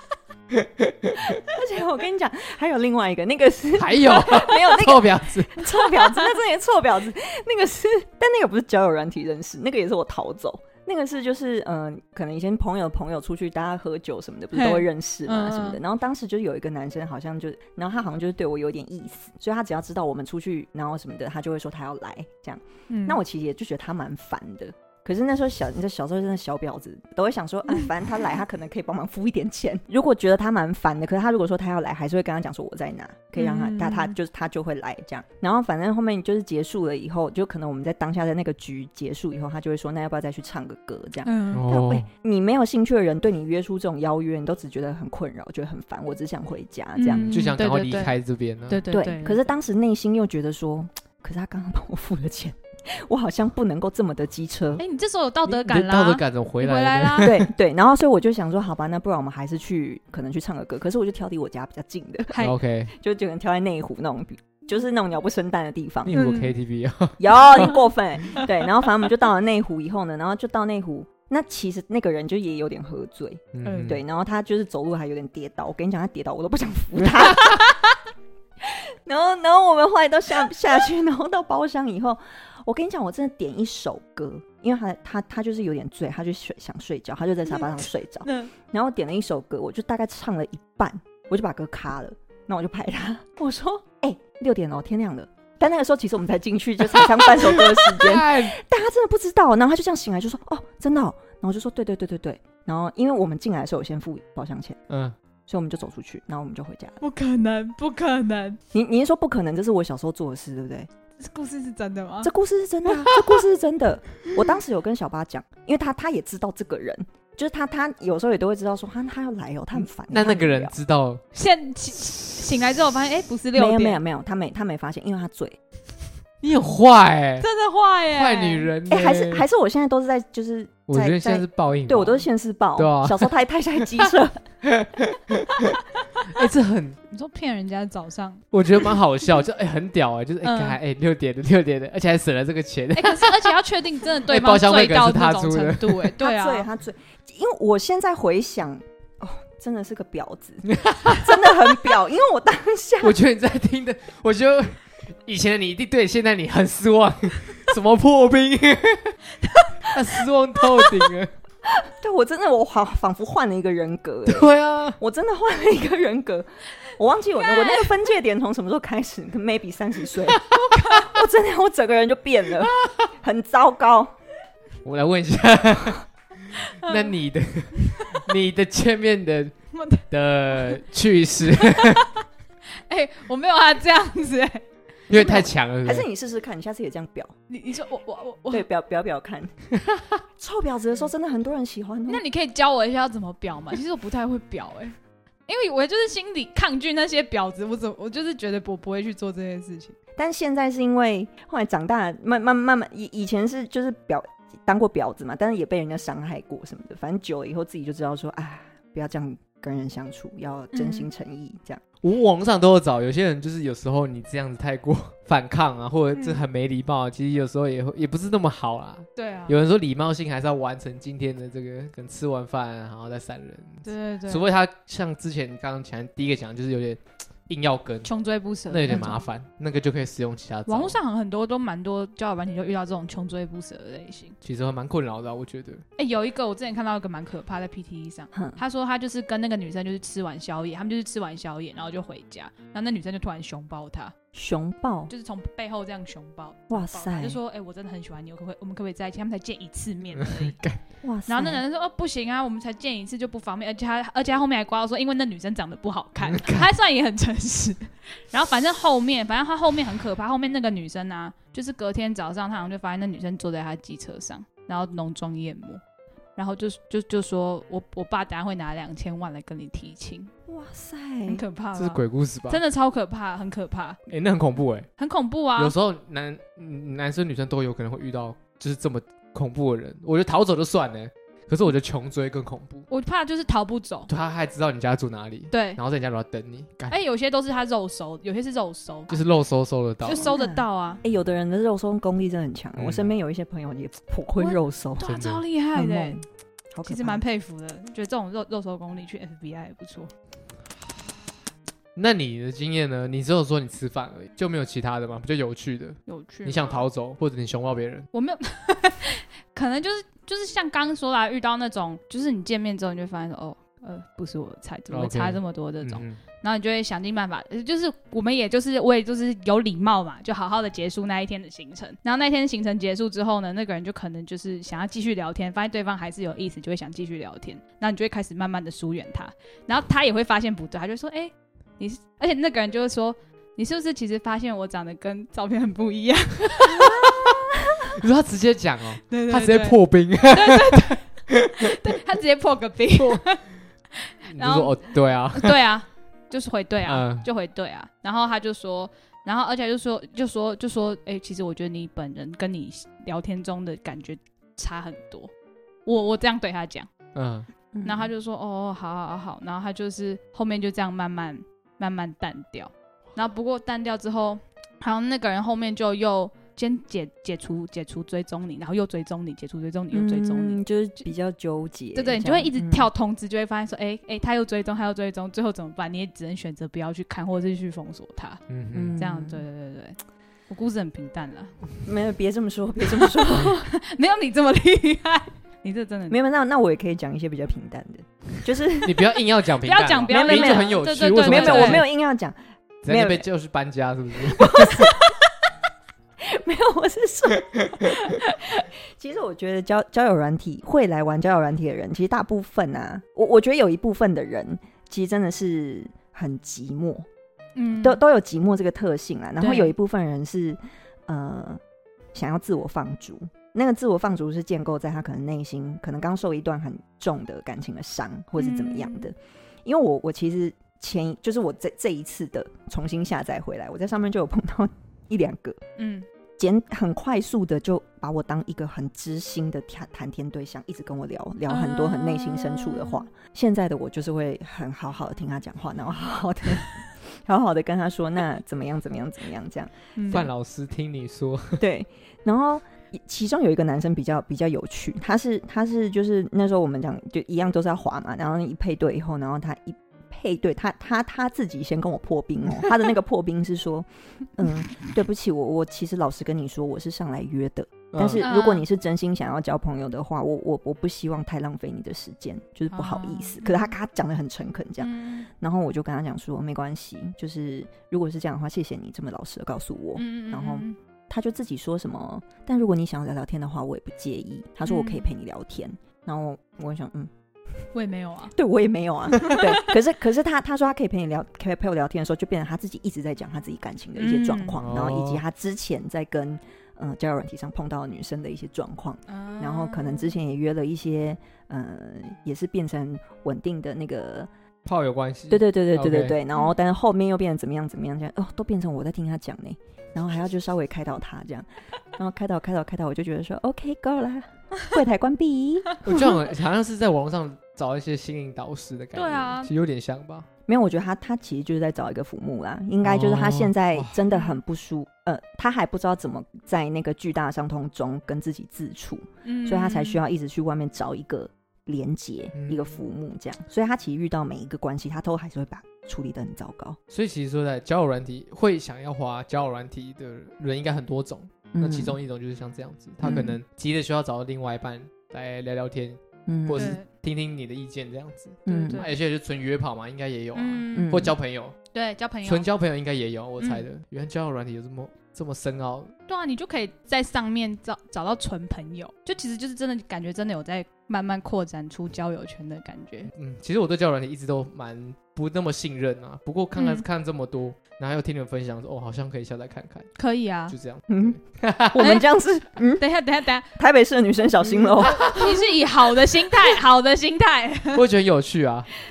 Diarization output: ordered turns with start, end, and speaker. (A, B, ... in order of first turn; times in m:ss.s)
0:00.5-0:01.4 A
0:01.4-0:47.3 B
0:03.8-0:05.6 A
0:14.5-0:15.8 C
0:22.9-0:23.2 C
0:33.4-0:34.2 C
0:41.2-0:41.7 C
0:41.5-0:42.1 A
0:47.0-0:48.2 C
0:47.2-0:48.9 A
0:48.7-0:49.5 C
0:48.9-0:54.8 B
0:54.8-0:57.4 C
0:55.4-0:57.5 A
0:57.2-1:02.4 B
1:02.4-1:02.9 A
1:02.9-1:06.2 B
1:06.1-1:07.7 A
1:06.1-1:06.6 C
1:07.2-1:18.0 B
1:13.5-1:14.0 A
1:13.6-1:14.0 C
1:18.6-1:44.8 B
1:37.8-1:38.6 A
1:44.9-1:45.2 A
1:45.5-1:47.0 B
1:47.0-1:48.6 C
1:48.7-1:50.9 B
1:51.2-1:52.3 C
1:52.2-2:00.8 B
2:00.1-2:01.2 A
2:01.3-2:04.0 C
2:03.6-2:05.6 B
2:06.4-2:07.5 A
2:07.4-2:08.7 C
2:08.1-2:09.5 A
2:08.9-2:14.4 B
2:10.9-2:13.4 A
2:14.7-2:17.0 A
2:17.1-2:18.4 C
2:18.5-2:23.5 A
2:20.4-2:20.8 C
2:23.0-2:26.7 C
2:24.3-2:26.2 A
2:26.2-2:33.2 B
2:30.7-2:31.4 A
2:33.0-2:39.2 A
2:39.4-2:39.7 C
2:39.9-2:41.3 A
2:41.7-2:54.1 B
2:44.3-2:45.0 A
2:47.5-2:47.8 C
2:50.5-2:51.1 C
2:52.6-2:53.0 A
2:54.8-3:02.1 A
2:56.8-2:57.1 C
2:59.7-3:00.0 C
3:01.6-3:02.0 C
3:02.9-3:04.6 C
3:05.1-3:06.1 A
3:05.1-3:07.4 B
3:07.5-3:08.7 C
3:08.5-3:09.6 B
3:09.7-3:10.2 A
3:10.4-3:12.2 B
3:12.1-3:15.0 C
3:15.5-3:20.0 C
3:20.2-3:31.8 B
3:30.7-3:31.1 C
3:32.0-3:48.1 A
3:36.1-3:36.4 C
3:39.2-3:39.6 C
3:43.8-3:44.5 C
3:48.0-3:49.2 C
3:48.6-3:51.0 A
3:48.9-3:49.2 B
3:50.7-3:54.4 C
3:54.4-3:55.8 A
3:56.0-4:04.1 C
3:58.3-3:58.6 B
4:04.3-4:05.1 B
4:05.1-4:10.6 C
4:06.7-4:07.4 B
4:10.2-4:10.8 A
4:11.0-4:11.6 B
4:11.3-4:25.8 C
4:16.3-4:16.7 A
4:26.4-4:30.3 C
4:30.5-4:31.4 B
4:31.3-4:34.0 C
4:31.8-4:32.6 A
4:34.1-4:34.9 A
4:35.0-4:35.8 C
4:35.6-4:42.9 A
4:42.9-4:44.1 C
4:44.1-4:47.0 A
4:45.5-4:45.8 C
4:46.9-4:49.2 C
4:49.1-4:50.3 A
4:50.0-4:51.0 C
4:50.1-4:55.2 B
4:52.8-4:53.1 A
4:54.4-4:56.2 C
4:55.0-4:55.4 A
4:55.7-4:57.2 B
4:56.8-5:00.1 C
5:02.0-5:08.1 A
5:06.1-5:06.8 C
5:08.1-5:37.3 C
5:14.9-5:16.2 A
5:37.8-5:41.8 A
5:39.1-5:43.5 C
5:43.0-5:43.4 A
5:44.3-5:45.6 A
5:44.4-5:55.3 C
5:46.9-5:47.3 A
5:55.9-5:56.9 C
5:57.2-5:57.5 A
5:57.7-5:58.1 B
5:57.8-6:11.1 C
6:09.9-6:12.9 B
6:11.9-6:18.4 C
6:18.5-6:19.0 A
6:18.7-6:19.4 B
6:19.0-6:20.0 C
6:20.5-6:21.6 C
6:21.8-6:23.7 B
6:23.0-6:26.2 C
6:26.1-6:29.1 B
6:28.8-6:31.9 A
6:29.6-6:31.8 C
6:30.1-6:32.4 B
6:32.8-6:35.0 A
6:32.9-6:33.3 B
6:34.4-6:35.2 B
6:36.2-6:47.1 B
6:37.9-6:38.2 C
6:47.6-6:48.0 C
6:47.8-6:51.6 B
6:49.4-6:49.7 C
6:52.1-7:05.6 B
6:58.4-6:59.1 C
7:05.8-7:06.1 C
7:06.4-7:19.7 B
7:11.5-7:12.9 C
7:20.0-7:20.3 C
7:20.1-7:21.6 A
7:21.6-7:57.1 B
7:37.9-7:38.2 A
7:38.2-7:38.6 C
7:42.7-7:43.7 C
7:44.8-7:45.3 C
7:50.0-7:50.8 C
7:54.7-7:55.1 C
7:57.7-7:58.3 C
7:58.3-8:14.3 B
7:59.1-7:59.7 C
8:04.0-8:04.6 C
8:04.6-8:05.2 A
8:09.1-8:10.1 C
8:14.7-8:16.2 A
8:15.3-8:25.7 B
8:25.8-8:30.3 A
8:29.0-8:29.5 C
8:30.5-8:46.8 B
8:32.8-8:34.0 A
8:39.2-8:40.0 C
8:42.3-8:42.7 A
8:46.9-9:01.6 A
8:51.5-8:52.0 B
8:53.0-8:53.4 B
8:53.0-8:53.3 C
8:56.3-8:56.8 B
8:56.6-8:56.9 C
8:58.5-8:58.8 B
8:58.5-8:58.9 C
9:00.3-9:01.0 C
9:00.8-9:01.2 B
9:01.7-9:02.5 C
9:02.2-9:05.9 A
9:03.4-9:03.7 C
9:06.1-9:13.1 C
9:13.1-9:19.9 A
9:16.6-9:16.9 C
9:20.0-9:20.6 C
9:20.5-9:21.9 A
9:20.9-9:22.8 B
9:21.8-9:22.0 C
9:22.8-9:23.5 C
9:23.6-9:25.1 B
9:24.8-9:25.3 A
9:24.8-9:27.8 C
9:27.7-9:28.7 A